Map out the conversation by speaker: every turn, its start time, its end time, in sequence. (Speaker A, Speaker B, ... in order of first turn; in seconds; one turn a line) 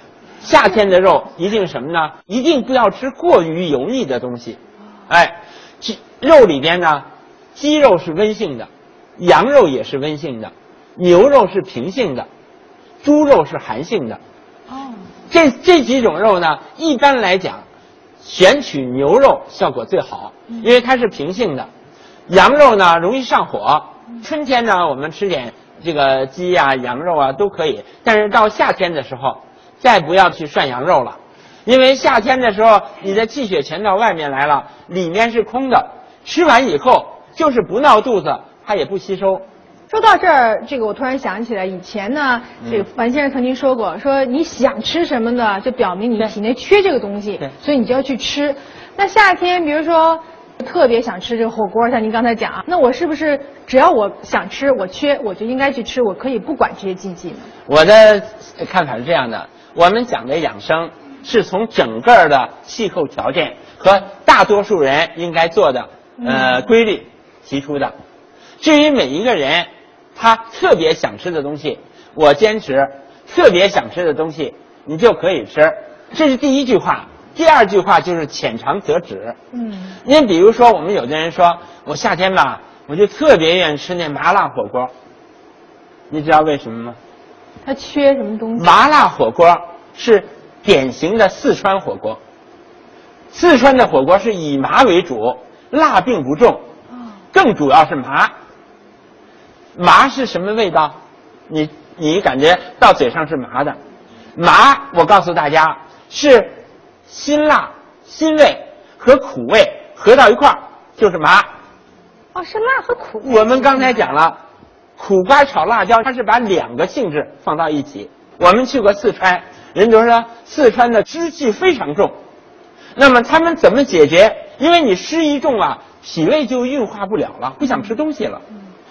Speaker A: 0.4-12.3
Speaker A: 13.0-14.2
Speaker B: 14.7-15.1
Speaker A: 15.3-17.6
Speaker A: 18.2-21.7
Speaker A: 22.3-39.4
Speaker B: 39.9-57.5
Speaker A: 57.6-67.9
Speaker B: 66.2-66.7
Speaker A: 68.6-79.3
Speaker B: 79.5-80.0
Speaker A: 80.0-84.9
Speaker A: 86.1-87.0
Speaker B: 87.6-88.7
Speaker A: 88.5-92.2
Speaker A: 93.3-96.6
Speaker A: 97.3-98.3
Speaker A: 99.7-103.8
Speaker A: 104.3-106.5
Speaker A: 107.1-111.5
Speaker B: 112.3-114.1
Speaker A: 113.2-114.4
Speaker A: 115.0-122.2
Speaker A: 122.9-128.4